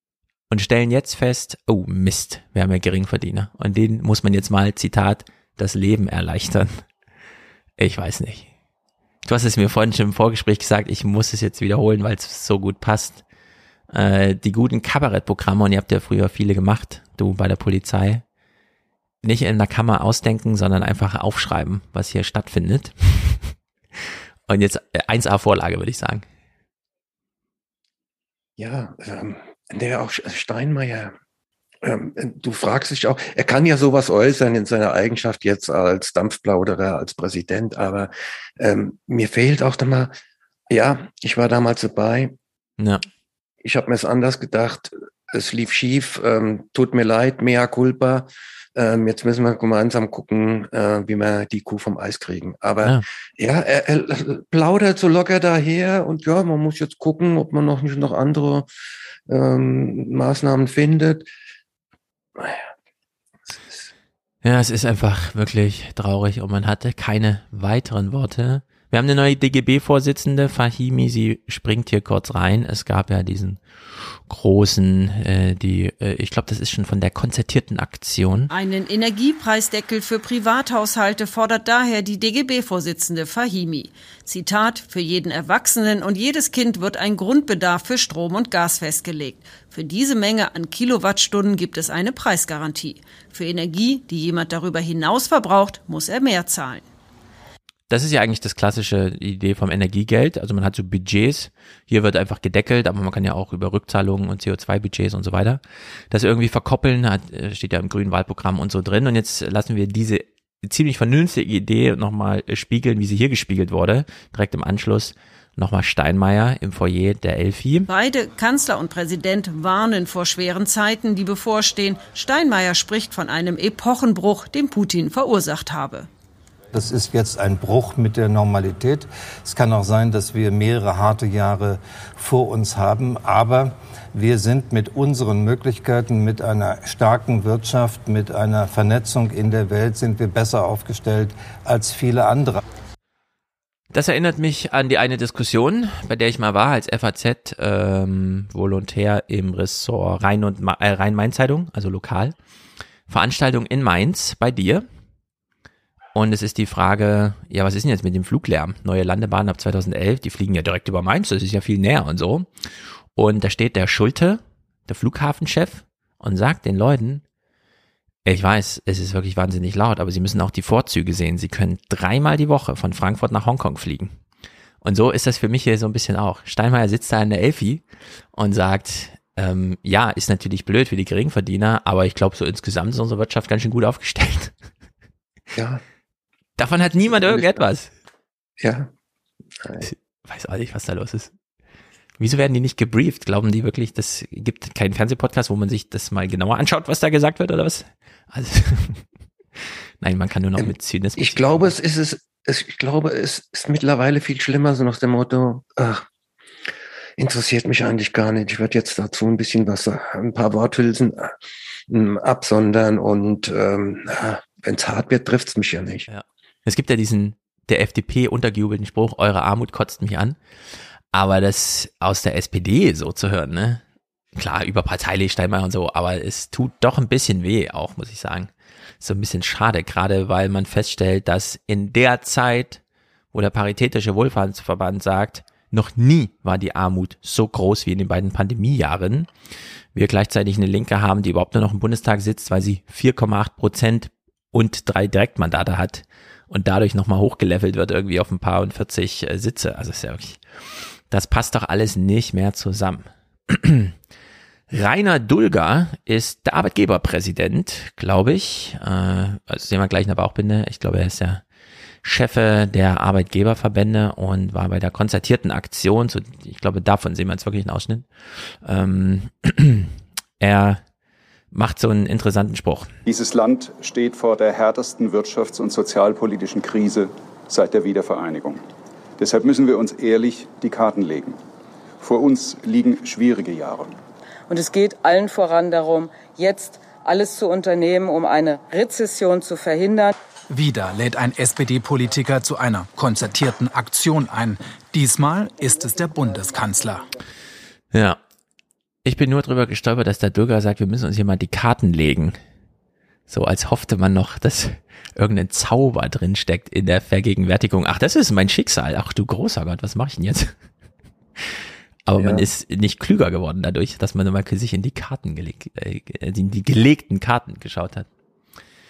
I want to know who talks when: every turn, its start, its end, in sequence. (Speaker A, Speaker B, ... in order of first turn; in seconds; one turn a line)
Speaker A: 0.5-6.8
Speaker A: 7.8-8.5
Speaker A: 9.2-13.2
Speaker A: 13.9-18.2
Speaker A: 19.2-23.5
Speaker A: 24.5-26.2
Speaker B: 28.6-31.1
Speaker B: 31.8-40.1
Speaker B: 40.7-42.3
Speaker B: 43.6-58.7
Speaker B: 59.3-61.3
Speaker B: 62.4-62.7
Speaker B: 63.5-63.9
Speaker A: 64.4-73.6
Speaker A: 74.1-78.5
Speaker C: 78.5-96.9
Speaker A: 97.9-117.9
Speaker C: 117.9-126.1
Speaker D: 126.7-142.6
Speaker A: 143.9-152.3
Speaker A: 153.1-154.9
Speaker A: 156.1-162.5
Speaker A: 163.1-167.2
Speaker A: 168.2-174.2
Speaker A: 174.8-184.5
Speaker B: 185.6-185.8
Speaker A: 186.6-187.9
Speaker B: 187.0-187.6
Speaker B: 188.6-188.9
Speaker B: 189.6-189.9
Speaker A: 189.8-191.3
Speaker A: 192.2-199.0
Speaker A: 200.0-201.7
Speaker B: 200.6-206.0
Speaker B: 207.2-211.3
Speaker B: 211.9-216.1
Speaker A: 216.1-220.4
Speaker A: 221.1-223.8
Speaker A: 224.3-232.8
Speaker A: 233.3-239.3
Speaker A: 239.9-250.4
Speaker A: 251.1-253.9
Speaker A: 254.7-261.4
Speaker A: 262.0-270.8
Speaker A: 271.5-272.9
Speaker E: 273.1-278.6
Speaker E: 279.2-281.4
Speaker E: 282.0-283.9
Speaker F: 284.5-290.1
Speaker G: 290.5-297.1
Speaker A: 297.9-298.2
Speaker A: 299.1-302.4
Speaker A: 303.3-310.6
Speaker A: 312.1-318.1
Speaker B: 312.2-312.4